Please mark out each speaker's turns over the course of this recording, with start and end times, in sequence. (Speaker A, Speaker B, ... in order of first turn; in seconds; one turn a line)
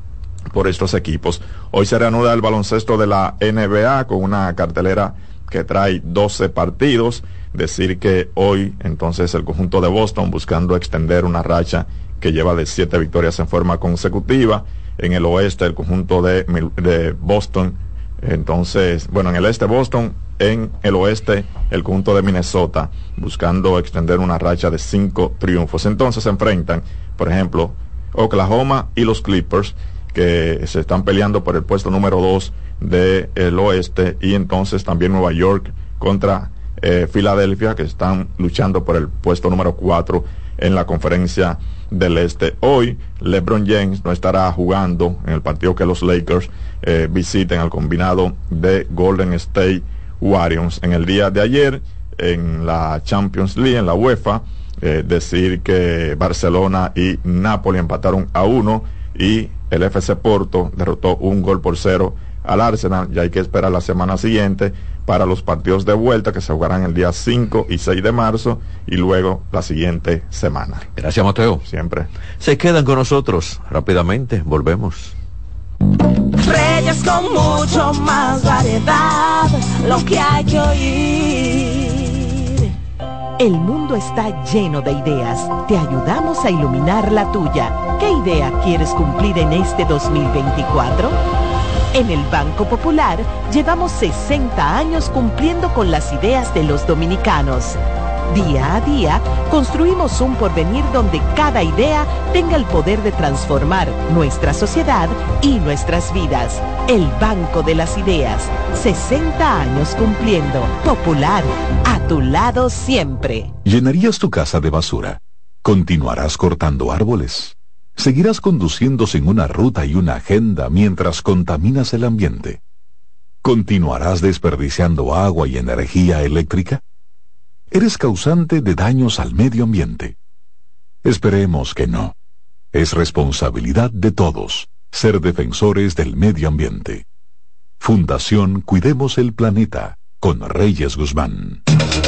Speaker A: 0.5-70.9
Speaker B: 71.0-71.6
Speaker A: 71.7-72.1
Speaker B: 72.4-75.2
Speaker C: 76.3-82.3
Speaker D: 83.4-91.2
Speaker D: 91.9-97.8
Speaker D: 98.3-113.5
Speaker E: 113.7-122.6
Speaker E: 123.4-126.8
Speaker E: 127.7-130.2
Speaker E: 131.0-132.2
Speaker E: 132.7-137.1
Speaker E: 137.8-141.6